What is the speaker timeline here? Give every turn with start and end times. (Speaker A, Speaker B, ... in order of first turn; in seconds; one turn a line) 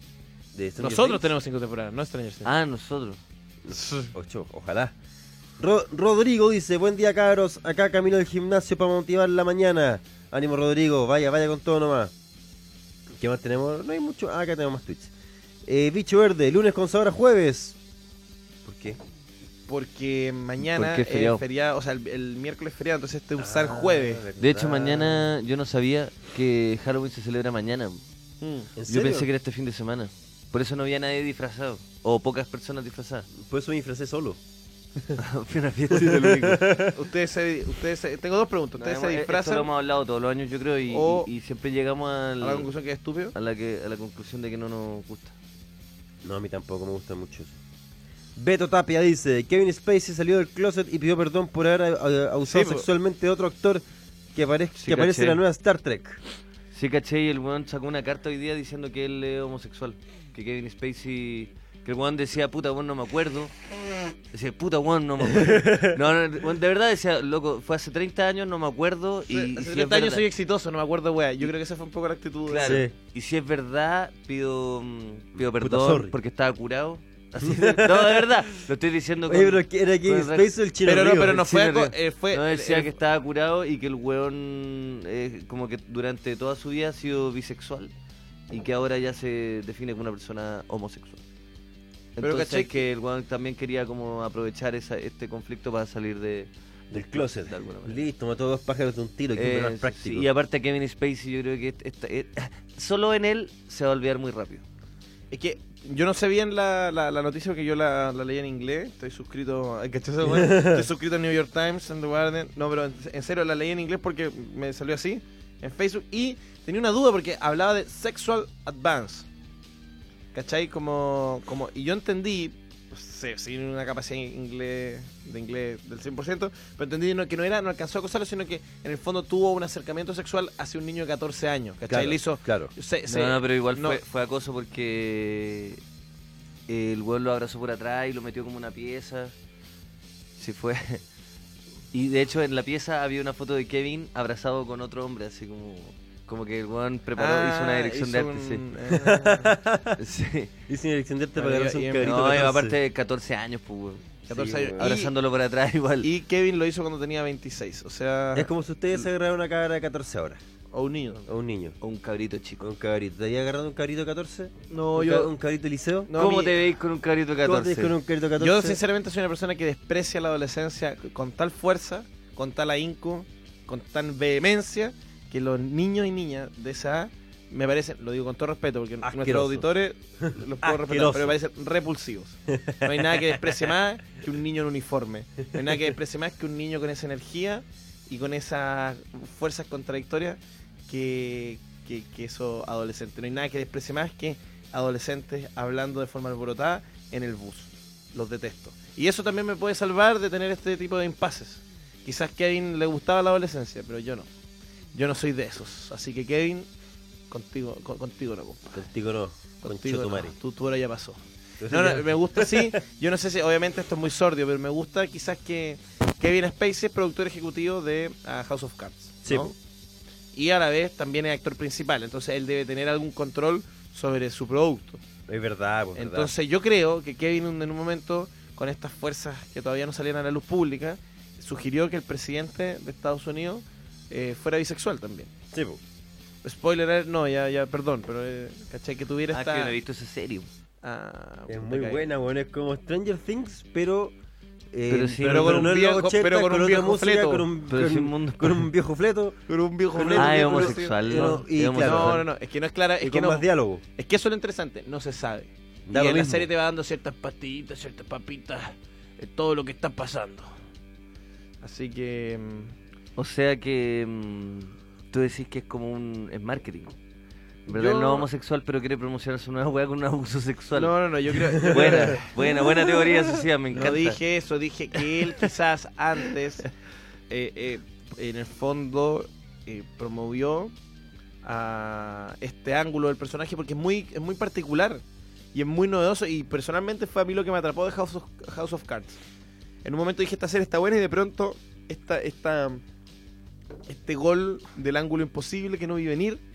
Speaker A: 0.5-1.3
Speaker B: 0.8-2.5
Speaker C: 2.4-3.2
Speaker A: 3.6-4.9
Speaker B: 3.7-4.1
Speaker A: 5.6-12.1
Speaker A: 13.1-15.1
Speaker A: 15.7-17.8
Speaker A: 18.6-19.0
Speaker B: 19.7-24.2
Speaker C: 20.6-21.4
Speaker A: 23.4-25.3
Speaker C: 24.4-28.0
Speaker B: 28.4-28.7
Speaker A: 28.8-29.3
Speaker C: 28.9-33.3
Speaker A: 33.3-34.4
Speaker C: 35.2-36.6
Speaker A: 35.9-36.9
Speaker B: 36.9-39.7
Speaker C: 38.8-42.7
Speaker B: 40.9-41.3
Speaker B: 42.4-43.3
Speaker C: 43.3-45.3
Speaker A: 46.2-47.6
Speaker A: 48.4-53.8
Speaker B: 52.4-52.8
Speaker A: 54.3-56.2
Speaker C: 54.8-55.4
Speaker C: 56.7-63.5
Speaker C: 64.3-70.2
Speaker A: 65.3-65.9
Speaker B: 69.3-72.8
Speaker C: 72.5-80.5
Speaker A: 72.6-72.9
Speaker A: 75.4-76.1
Speaker A: 77.4-78.3
Speaker A: 79.3-81.4
Speaker B: 80.8-83.0
Speaker C: 81.2-87.9
Speaker C: 88.5-91.2
Speaker C: 92.2-98.0
Speaker B: 92.2-92.8
Speaker A: 96.9-100.3
Speaker C: 99.3-104.6
Speaker B: 105.3-119.2
Speaker A: 110.2-110.8
Speaker B: 120.3-134.0
Speaker A: 131.9-132.7
Speaker C: 133.1-135.8
Speaker C: 136.7-139.3
Speaker C: 140.4-141.0
Speaker C: 141.9-148.6
Speaker B: 147.2-149.5
Speaker A: 148.9-150.0
Speaker C: 150.0-150.5
Speaker A: 150.7-152.7
Speaker B: 151.4-152.2
Speaker C: 152.0-156.1
Speaker B: 154.3-155.1
Speaker A: 154.3-154.9
Speaker B: 156.0-159.1
Speaker A: 158.3-160.4
Speaker B: 160.7-161.2
Speaker A: 161.3-161.8
Speaker C: 161.8-162.6
Speaker A: 162.6-166.1
Speaker B: 164.7-165.3
Speaker B: 166.1-166.6
Speaker C: 166.1-167.9
Speaker A: 167.4-168.8
Speaker B: 168.4-204.3
Speaker A: 179.0-179.7
Speaker A: 180.2-181.3
Speaker A: 182.5-183.4
Speaker B: 204.9-206.7
Speaker B: 207.3-208.8
Speaker A: 208.7-210.3
Speaker B: 209.6-219.5
Speaker A: 211.6-212.7
Speaker A: 219.2-219.5
Speaker B: 220.3-225.0
Speaker A: 225.3-226.3
Speaker B: 225.9-235.3
Speaker A: 235.5-235.8
Speaker B: 236.4-239.8
Speaker C: 239.3-240.5
Speaker B: 240.8-242.0
Speaker A: 241.5-244.1
Speaker A: 244.7-249.4
Speaker C: 244.9-245.5
Speaker B: 245.2-247.4
Speaker C: 247.7-248.7
Speaker B: 249.5-260.5
Speaker A: 249.9-252.2
Speaker C: 250.1-252.2
Speaker A: 253.0-253.8
Speaker A: 255.9-256.5
Speaker B: 261.6-262.7
Speaker C: 263.1-266.9
Speaker B: 267.7-268.3
Speaker C: 267.7-270.9
Speaker B: 270.7-272.3
Speaker C: 271.6-274.2
Speaker B: 273.7-276.7
Speaker B: 277.3-280.7
Speaker B: 281.4-285.0
Speaker B: 285.5-289.1
Speaker B: 289.8-292.8
Speaker B: 293.9-296.4